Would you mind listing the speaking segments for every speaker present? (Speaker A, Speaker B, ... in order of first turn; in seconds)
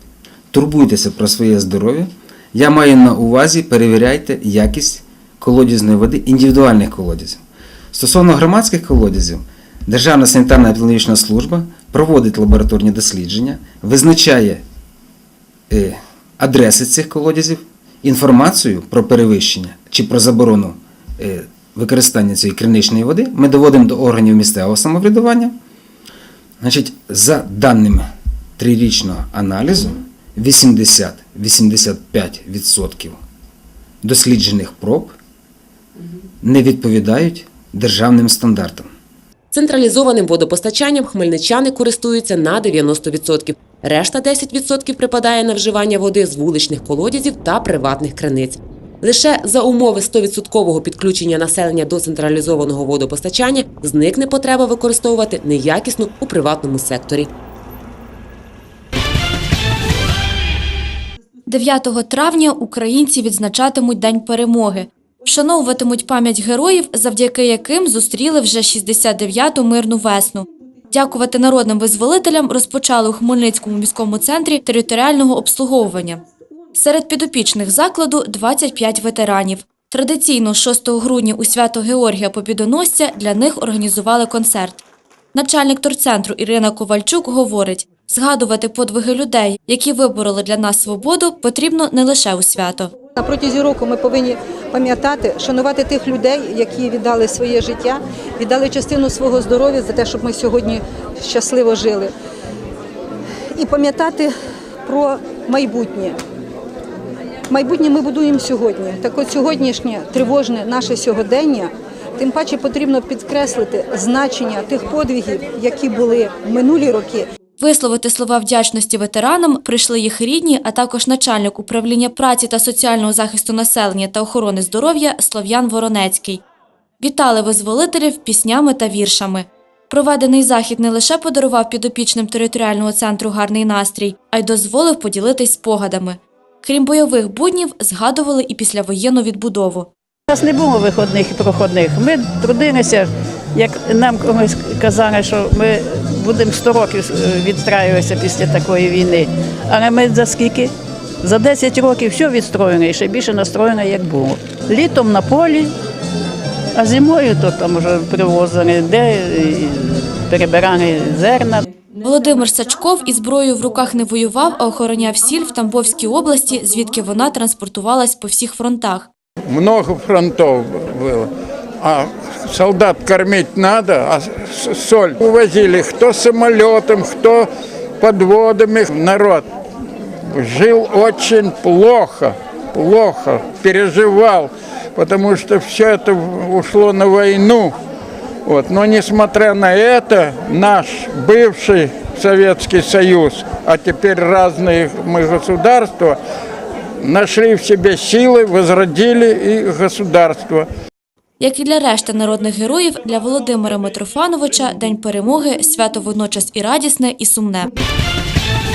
Speaker A: 0.5-14.6, 15.7-25.6, 26.6-33.2, 34.0-35.2, 36.4-38.9
Speaker B: 39.5-57.3
Speaker C: 61.5-76.2, 76.7-84.8, 85.3-92.9, 117.6-126.4, 127.0-139.9, 162.0-169.1, 201.4-207.7
Speaker D: 93.2-102.1, 103.5-104.3, 104.8-106.2, 107.5-117.3
Speaker E: 140.3-155.7, 156.8-161.7
Speaker F: 169.5-171.3, 171.8-177.5, 178.0-179.5, 180.3-187.7, 188.5-196.2, 197.0-200.7